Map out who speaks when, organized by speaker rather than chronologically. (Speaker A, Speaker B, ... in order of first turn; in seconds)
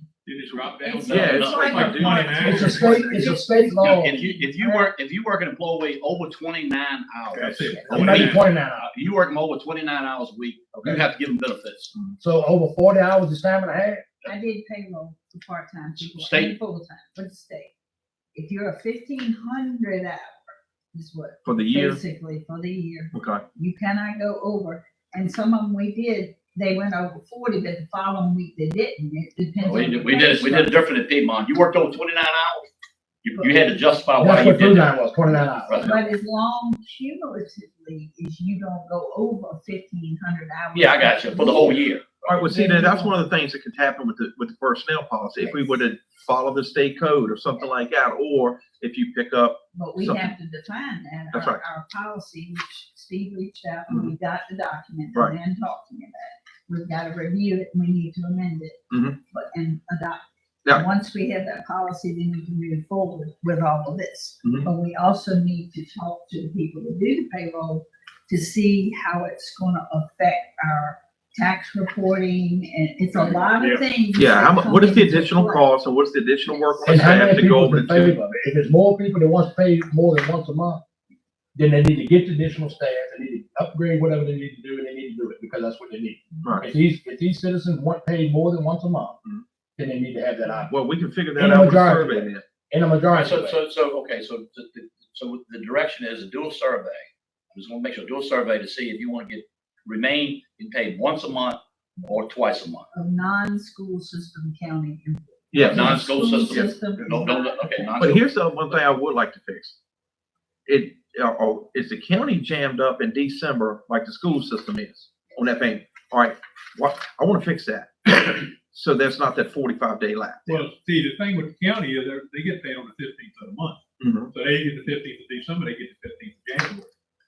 Speaker A: 0.2-3.2, 7.3-8.4, 73.6-73.8, 120.5-123.8, 124.3-126.9
Speaker B: 0.8-2.4, 4.3-4.9, 7.6-8.0, 14.2-17.7, 18.3-30.8, 35.8-41.8, 42.5-43.1, 49.7-75.7, 76.6-76.8, 102.9-108.0
Speaker C: 1.0-1.9, 3.6-8.4, 8.9-11.9, 16.0-16.5, 29.6-32.7, 33.2-34.9, 35.6-36.0, 40.7-42.4, 93.2-102.9, 105.6-108.3
Speaker D: 1.1-3.4, 21.4-22.0, 23.1-23.4, 42.2-50.3, 51.3-51.6, 58.9-59.2, 64.4-64.7, 74.1-78.2, 86.4-86.7, 90.7-92.4, 105.5-106.7, 108.0-109.8, 110.7-120.7, 124.0-124.3
Speaker E: 2.3-4.2, 7.9-8.9, 12.2-14.1, 34.2-35.9, 76.8-80.8, 81.5-89.2, 89.8-90.7, 91.4-93.6